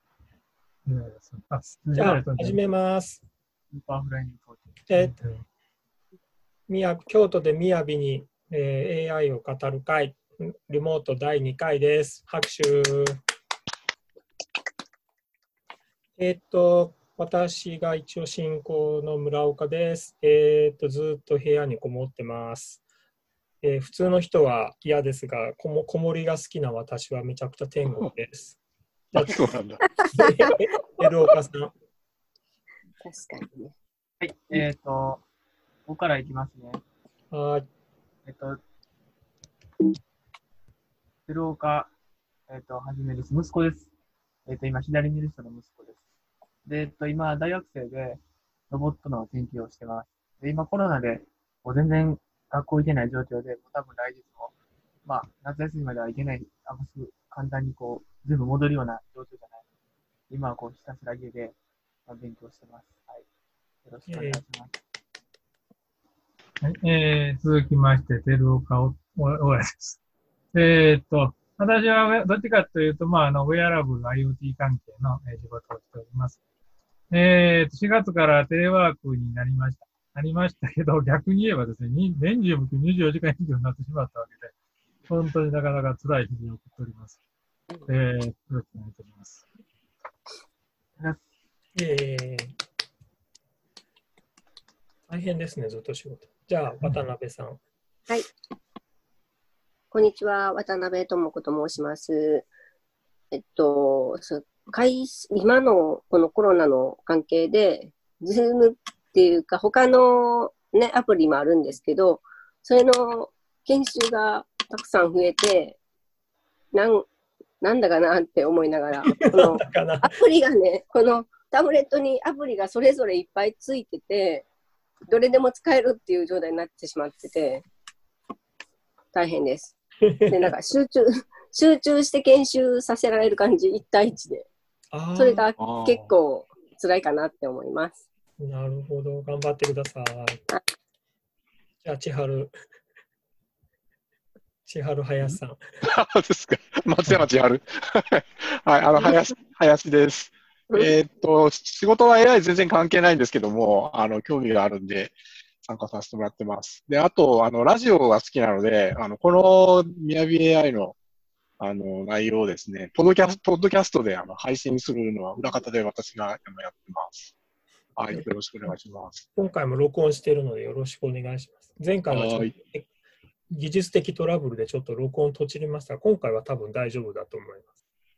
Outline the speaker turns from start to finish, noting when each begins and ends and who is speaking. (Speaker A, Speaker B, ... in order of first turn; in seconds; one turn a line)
Speaker A: 0.8-2.6
Speaker B: 1.9-3.2
Speaker C: 3.7-4.8
Speaker B: 4.9-5.2
Speaker A: 5.0-5.4
Speaker B: 6.7-13.2
Speaker B: 16.2-22.8
Speaker B: 23.6-28.6
Speaker B: 29.1-29.5
Speaker D: 29.1-29.8
Speaker E: 29.8-30.6
Speaker B: 30.1-31.7
Speaker E: 33.0-33.7
Speaker C: 34.2-35.2
Speaker C: 35.9-36.8
Speaker B: 37.3-37.7
Speaker C: 38.2-38.6
Speaker C: 41.2-41.9
Speaker C: 42.5-43.9
Speaker C: 44.5-46.0
Speaker C: 46.6-54.5
Speaker C: 55.0-59.6
Speaker C: 60.3-63.3
Speaker C: 63.8-64.8
Speaker B: 64.1-64.4
Speaker A: 66.6-70.0
Speaker A: 70.5-76.4
Speaker A: 77.1-84.5
Speaker A: 85.1-87.2
Speaker A: 87.9-89.4
Speaker B: 91.8-92.5
Speaker B: 95.1-97.6
Speaker E: 99.9-102.5
Speaker E: 103.3-115.8
Speaker E: 116.7-117.1
Speaker E: 117.6-124.5
Speaker B: 119.0-120.1
Speaker E: 125.1-127.6
Speaker E: 129.1-129.7
Speaker B: 130.1-130.5
Speaker E: 130.3-134.5
Speaker B: 134.9-135.4
Speaker E: 135.1-138.0
Speaker D: 135.6-136.1
Speaker B: 138.4-140.4
Speaker B: 141.8-142.5
Speaker B: 144.7-145.6
Speaker D: 145.2-160.9
Speaker E: 149.0-149.3
Speaker E: 150.7-150.9
Speaker D: 161.6-167.3
Speaker D: 167.9-169.2
Speaker B: 168.1-168.7
Speaker B: 169.3-172.9
Speaker D: 172.1-172.5
Speaker B: 173.5-177.7